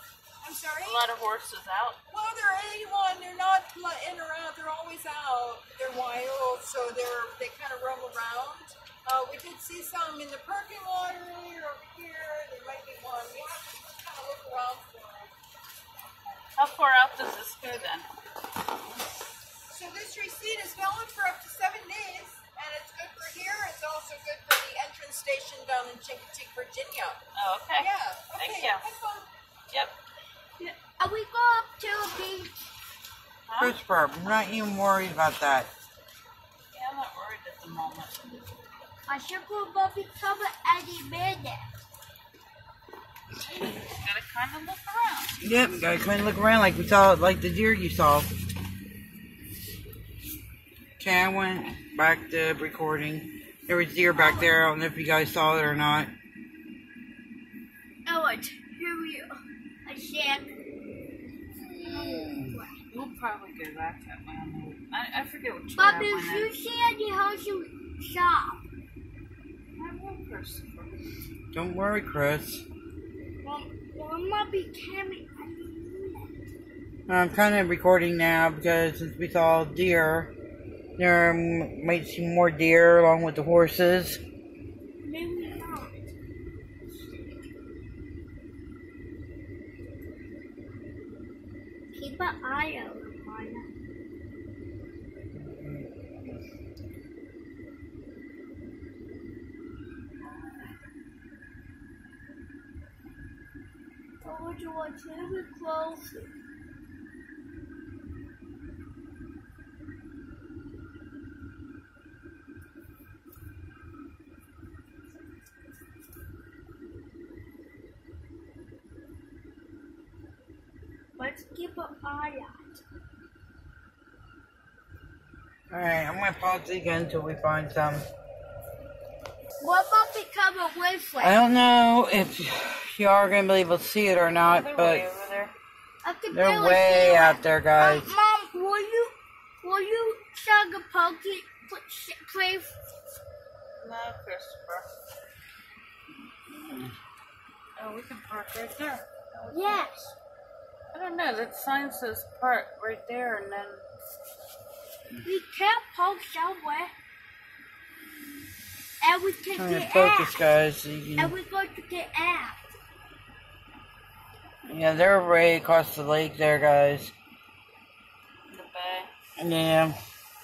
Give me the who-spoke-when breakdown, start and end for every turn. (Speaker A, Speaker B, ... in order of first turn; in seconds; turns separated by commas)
Speaker A: 0.4-1.1, Speaker B: 0.8-2.0, Speaker A: 2.1-15.3, Speaker B: 16.5-18.1, Speaker A: 19.7-27.2, Speaker B: 27.3-28.8, Speaker A: 27.8-29.3, Speaker B: 29.7-29.9, Speaker C: 30.6-32.5, Speaker B: 33.5-33.8, Speaker D: 33.6-35.7, Speaker B: 36.7-38.2, Speaker C: 39.1-41.7, Speaker B: 43.8-45.4, Speaker D: 45.4-48.3, Speaker D: 51.0-56.1, Speaker C: 54.1-54.5, Speaker C: 58.0-60.5, Speaker C: 61.6-62.8, Speaker B: 62.9-66.5, Speaker C: 65.8-68.6, Speaker B: 69.7-71.0, Speaker D: 71.5-72.6, Speaker C: 73.4-76.3, Speaker D: 77.1-80.3, Speaker D: 81.0-84.2, Speaker C: 85.0-86.0, Speaker C: 91.9-93.7, Speaker C: 104.2-106.3, Speaker C: 121.2-122.8, Speaker D: 125.7-128.1, Speaker C: 129.6-131.4, Speaker D: 131.2-135.1, Speaker B: 134.4-135.5, Speaker C: 136.0-142.7, Speaker D: 136.3-138.1, Speaker B: 143.8-144.9, Speaker B: 147.8-149.9, Speaker C: 149.5-150.1, Speaker B: 150.9-153.8, Speaker C: 155.2-156.9, Speaker C: 159.0-160.4, Speaker D: 159.6-161.3, Speaker C: 161.2-162.7, Speaker D: 164.7-167.1, Speaker B: 168.5-169.1, Speaker D: 169.4-169.9